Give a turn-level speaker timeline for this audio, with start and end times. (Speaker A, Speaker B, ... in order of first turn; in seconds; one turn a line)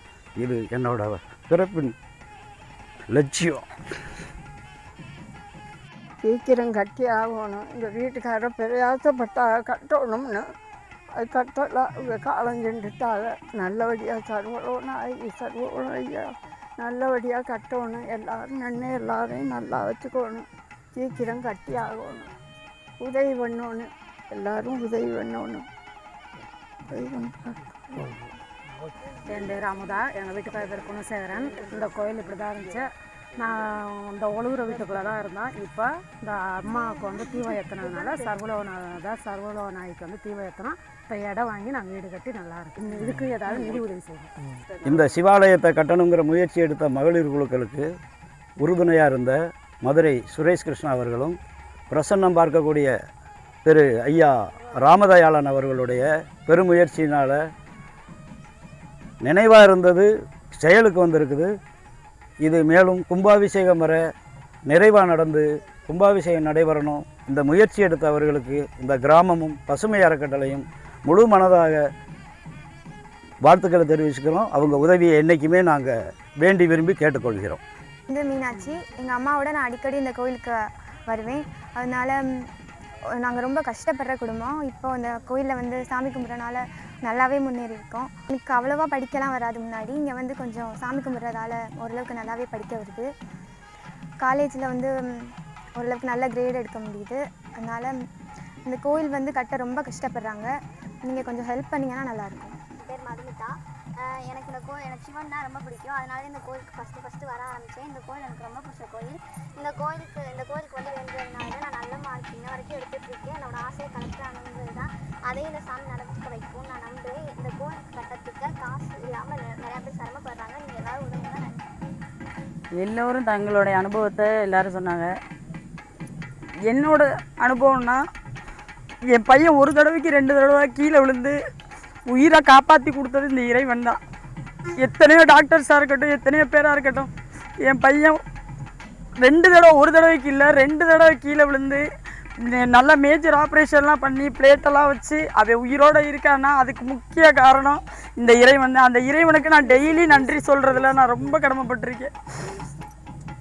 Speaker A: 0.4-1.9
Speaker A: 3.1-3.7
Speaker B: 6.2-10.4
Speaker B: 11.2-16.3
Speaker B: 16.8-20.4
Speaker B: 20.9-22.3
Speaker B: 23.0-25.6
Speaker B: 26.9-28.1
Speaker C: 29.3-44.3
Speaker A: 44.9-47.9
Speaker A: 48.6-51.4
Speaker A: 51.9-52.9
Speaker A: 53.6-57.4
Speaker A: 59.2-61.5
Speaker A: 62.4-64.0
Speaker A: 64.7-71.8
Speaker A: 73.4-77.6
Speaker D: 78.1-82.3
Speaker D: 83.2-93.1
Speaker D: 94.2-98.0
Speaker D: 98.7-100.5
Speaker D: 101.0-102.6
Speaker E: 102.8-121.7
Speaker F: 122.8-125.1
Speaker F: 126.7-128.0
Speaker F: 129.1-131.4
Speaker F: 132.1-134.0
Speaker F: 134.8-137.1
Speaker F: 137.6-138.2
Speaker F: 139.2-141.8
Speaker F: 142.5-152.1